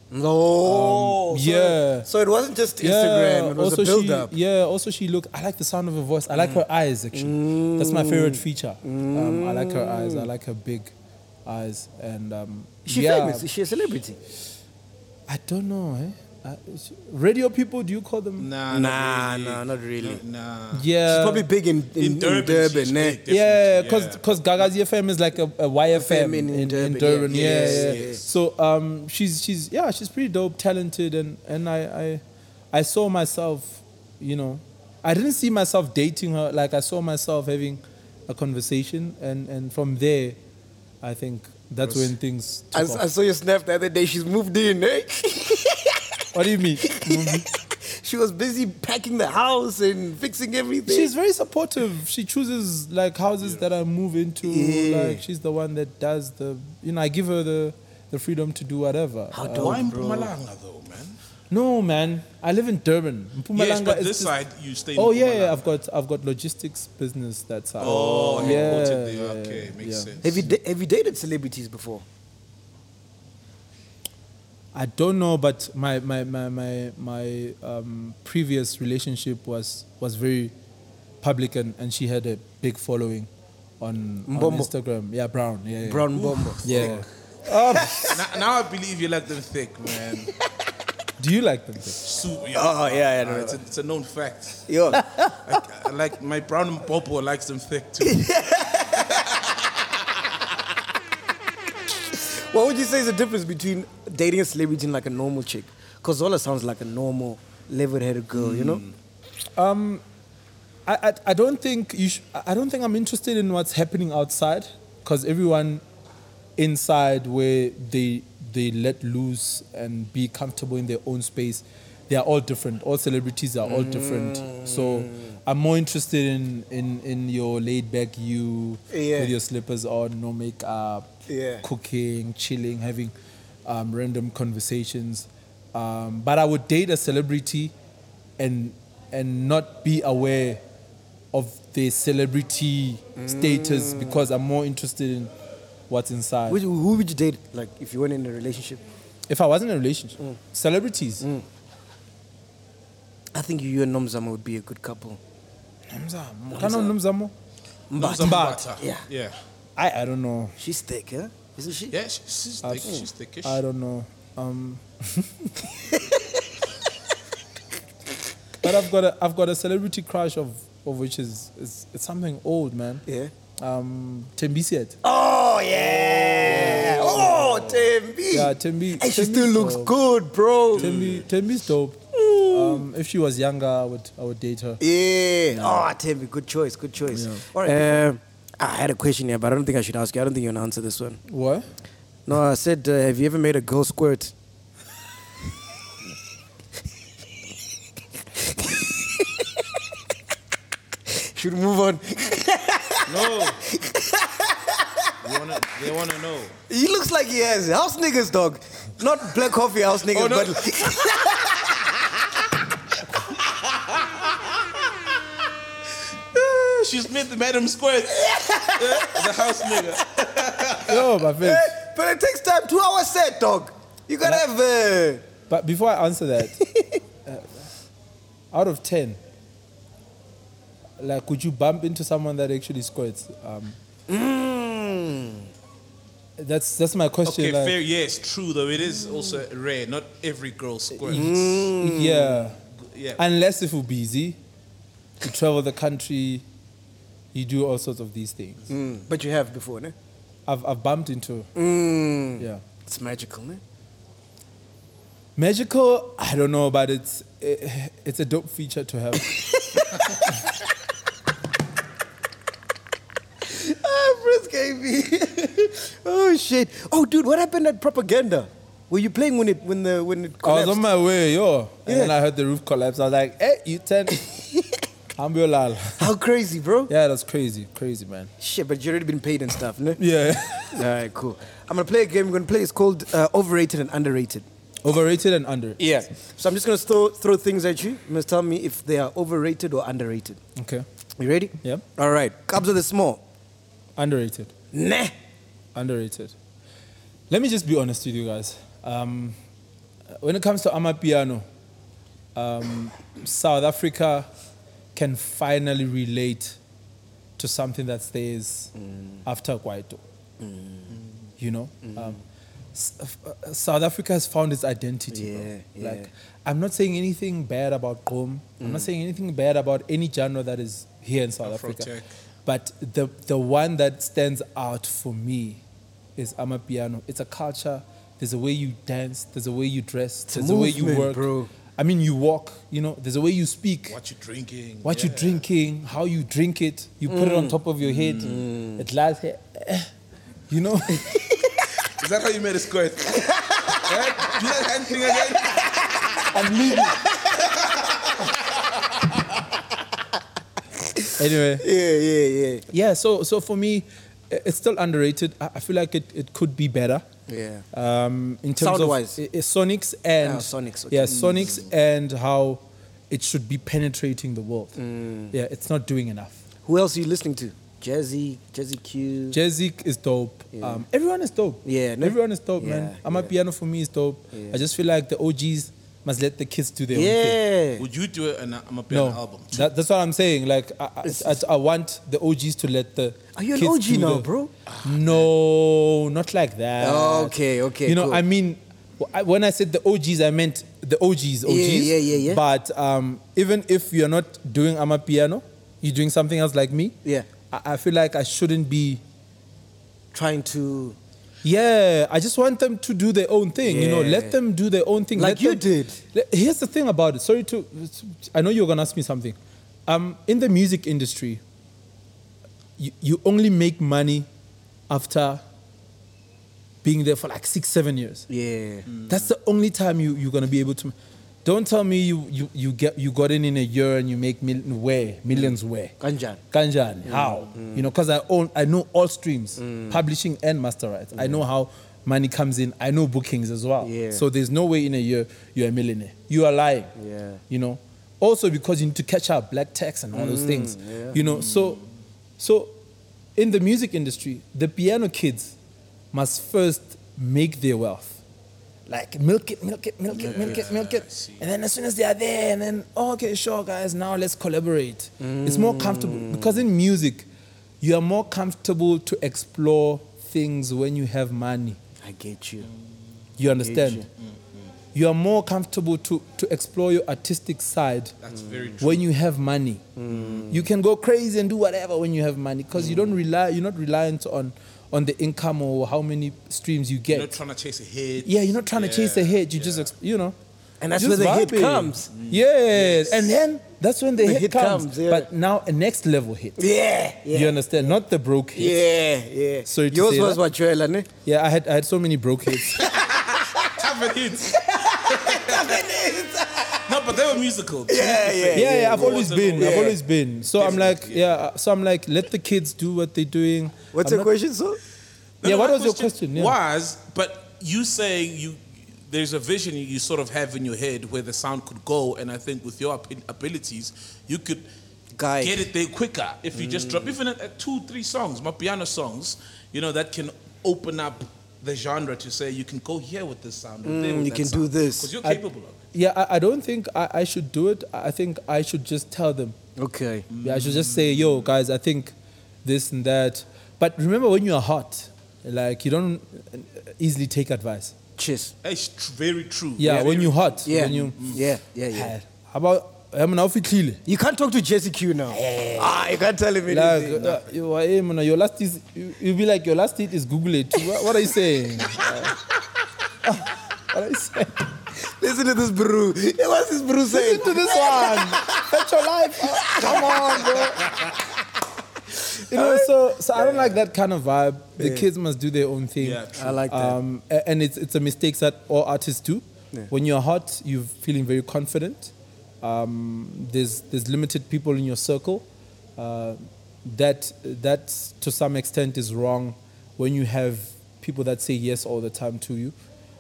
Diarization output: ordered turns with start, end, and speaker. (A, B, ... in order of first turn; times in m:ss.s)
0:00.1-0:04.3 A
0:00.6-0:02.1 B
0:02.8-0:10.9 B
0:06.3-0:06.6 A
0:07.1-0:10.3 A
0:11.4-0:13.5 B
0:12.9-0:14.2 A
0:15.3-0:18.5 B
0:18.4-0:20.9 C
0:18.7-0:20.2 A
0:20.7-0:21.5 B
0:21.1-0:23.2 A
0:22.0-0:24.7 C
0:23.3-0:40.4 B
0:25.9-0:28.2 A
0:27.3-0:28.2 C
0:41.0-0:43.0 B
0:41.8-0:42.1 C
0:42.7-0:46.2 A
0:46.3-0:47.5 B
0:46.9-0:51.1 A
0:50.9-0:59.8 B
0:54.4-0:55.2 A
0:59.3-1:00.3 A
0:59.5-1:01.2 C
1:01.5-1:04.3 B
1:03.5-1:05.7 C
1:05.0-1:10.5 B
1:07.8-1:10.5 C
1:07.8-1:08.9 A
1:10.2-1:12.0 A
1:14.7-1:20.5 B
1:21.2-1:28.1 B
1:24.3-1:24.7 A
1:25.8-1:27.0 A
1:26.1-1:27.1 C
1:27.8-1:28.1 A
1:28.0-1:30.3 C
1:31.2-1:32.0 B
1:32.0-1:38.3 C
1:32.5-1:33.6 A
1:34.7-1:35.1 A
1:38.0-1:39.3 A
1:42.1-1:48.8 A
1:48.3-1:48.9 C
1:49.6-1:50.0 B
1:50.9-1:55.8 B
1:56.6-2:11.1 B
2:03.6-2:05.4 A
2:08.9-2:09.3 A
2:11.3-2:11.6 A
2:11.6-2:13.1 B
2:13.6-2:17.7 B
2:18.4-2:20.6 B
2:21.3-2:25.3 B
2:23.2-2:24.2 A
2:25.9-2:26.6 B
2:26.5-2:28.8 A
2:29.3-2:31.3 B
2:33.3-2:35.2 A
2:35.9-2:37.3 B
2:36.5-2:36.9 A
2:37.9-2:39.0 A
2:38.0-2:39.4 C
2:38.2-2:38.7 B
2:39.8-2:40.6 B
2:40.6-2:41.9 A
2:41.9-2:43.6 C
2:42.6-2:45.7 B
2:48.6-2:53.0 B
2:53.1-2:53.3 A
2:53.6-2:55.0 B
2:55.0-3:00.9 A
2:55.8-3:00.0 B
3:00.7-3:01.3 C
3:00.8-3:04.8 B
3:02.2-3:02.8 A
3:04.8-3:11.2 A
3:05.5-3:05.9 B
3:07.1-3:08.0 B
3:11.3-3:11.7 B
3:12.3-3:14.3 A
3:18.8-3:19.3 A
3:21.1-3:25.1 A
3:23.1-3:23.6 C
3:25.2-3:26.6 C
3:26.7-3:31.9 A
3:30.1-3:31.2 C
3:36.4-3:41.0 C
3:38.2-3:39.3 A
3:40.9-3:41.8 B
3:41.4-3:45.2 A
3:45.5-3:46.6 B
3:47.2-3:47.7 B
3:48.5-3:49.2 B
3:51.0-3:53.8 B
3:54.1-3:55.5 A
3:56.4-3:57.8 B
3:57.2-4:01.5 C
4:01.1-4:02.6 B
4:01.1-4:02.5 A
4:02.8-4:03.2 C
4:03.2-4:04.4 B
4:05.2-4:06.4 B
4:07.3-4:08.6 B
4:08.7-4:10.0 A
4:10.5-4:11.5 B
4:11.6-4:13.6 A
4:12.4-4:12.6 B
4:15.4-4:19.3 B
4:19.3-4:20.3 A
4:23.4-4:30.8 A
4:30.4-4:34.3 B
4:31.9-4:32.1 A
4:35.2-4:36.1 B
4:36.0-4:36.9 A
4:36.9-4:38.3 B
4:38.4-4:40.0 A
4:40.0-4:40.9 B
4:40.7-4:44.4 A
4:44.8-4:45.8 B
4:45.8-4:50.4 A
4:50.6-4:50.9 B
4:51.2-4:53.2 A
4:54.0-4:54.5 B
4:54.7-4:55.1 A
4:55.8-4:56.4 B
4:57.3-4:59.4 B
5:00.1-5:01.5 B
5:02.4-5:04.3 B
5:05.0-5:06.6 B
5:07.4-5:08.7 B
5:08.8-5:09.2 A
5:09.2-5:10.0 B
5:10.4-5:10.9 A
5:11.4-5:12.2 B
5:11.9-5:12.2 A
5:12.7-5:21.9 B
5:15.1-5:16.1 A
5:18.6-5:18.9 A
5:21.4-5:22.1 C
5:22.5-5:25.6 B
5:26.2-5:34.0 B
5:30.3-5:31.5 A
5:33.9-5:35.4 C
5:34.8-5:39.9 B
5:37.1-5:37.6 A
5:37.8-5:38.4 C
5:38.2-5:38.8 A
5:40.5-5:41.1 B
5:42.0-5:46.3 C
5:43.1-5:43.8 A
5:46.3-5:47.1 B
5:47.8-5:48.1 C
5:51.2-5:51.7 B
5:51.6-5:52.7 A
5:52.7-5:57.1 B
5:57.3-5:57.6 A
5:57.7-6:04.8 B
5:58.6-5:59.2 A
6:00.2-6:01.6 A
6:01.2-6:01.4 C
6:04.8-6:05.4 A
6:05.3-6:06.4 B
6:06.7-6:09.4 A
6:09.3-6:17.4 B
6:11.6-6:13.3 A
6:14.3-6:14.6 A
6:16.9-6:17.8 A
6:17.8-6:19.7 C
6:18.9-6:24.3 B
6:21.0-6:21.4 A
6:23.4-6:24.5 A
6:24.7-6:25.3 C
6:24.8-6:37.0 B
6:26.8-6:28.2 A
6:31.5-6:32.4 A
6:37.5-6:39.0 B
6:40.1-6:41.0 A
6:41.4-6:51.4 B
6:43.6-6:44.4 A
6:45.2-6:46.0 A
6:52.8-6:54.3 B
6:54.9-6:55.4 B
6:56.8-6:58.3 B
6:58.3-6:58.9 A
6:59.1-7:05.9 B
7:05.3-7:06.4 A
7:06.5-7:16.9 B
7:07.0-7:07.9 A
7:09.6-7:10.0 A
7:11.2-7:11.4 A
7:13.8-7:14.2 A
7:17.0-7:17.4 A
7:17.5-7:21.8 B
7:20.1-7:21.2 A
7:21.2-7:21.9 C
7:22.4-7:22.7 B
7:23.4-7:25.6 B
7:26.1-7:28.2 B
7:28.9-7:37.3 B
7:30.2-7:31.4 C
7:30.2-7:30.6 A
7:35.2-7:36.6 A
7:37.8-7:41.8 B
7:42.0-7:42.7 A
7:43.4-7:44.0 B
7:43.6-7:44.1 A
7:44.9-7:48.2 B
7:48.2-7:49.1 C
7:48.8-7:49.8 B
7:50.0-7:50.6 A
7:50.1-7:50.4 C
7:50.5-7:57.4 B
7:52.8-7:53.1 A
7:57.1-7:59.9 C
7:58.2-8:00.4 B
8:00.8-8:02.1 A
8:01.0-8:06.6 B
8:02.1-8:03.2 C
8:04.2-8:05.3 A
8:06.6-8:07.6 A
8:07.3-8:08.8 B
8:08.6-8:11.1 A
8:09.6-8:10.4 B
8:11.2-8:12.9 B
8:12.8-8:15.8 C
8:14.5-8:16.8 A
8:16.9-8:20.0 C
8:17.9-8:20.0 A
8:18.5-8:24.3 B
8:20.5-8:21.4 C
8:23.9-8:24.8 A
8:25.4-8:34.7 C
8:25.4-8:26.6 B
8:35.2-8:35.7 A
8:35.4-8:45.8 C
8:36.5-8:37.2 A
8:43.8-8:45.1 A
8:45.9-8:49.6 B
8:49.8-8:50.3 A
8:50.3-8:51.5 C
8:50.4-8:58.0 B
8:58.2-8:58.5 A
8:58.6-9:01.4 C
8:59.8-9:01.4 B
9:00.6-9:02.1 A
9:01.9-9:04.0 B
9:04.1-9:07.2 A
9:05.3-9:06.0 B
9:06.7-9:12.4 B
9:07.2-9:07.4 C
9:13.2-9:14.7 B
9:15.0-9:18.7 A
9:17.1-9:20.9 B
9:19.5-9:20.4 A
9:20.6-9:21.1 C
9:22.3-9:23.8 A
9:22.5-9:35.5 B
9:24.8-9:25.1 A
9:26.0-9:26.7 C
9:26.4-9:27.0 A
9:36.0-9:42.8 B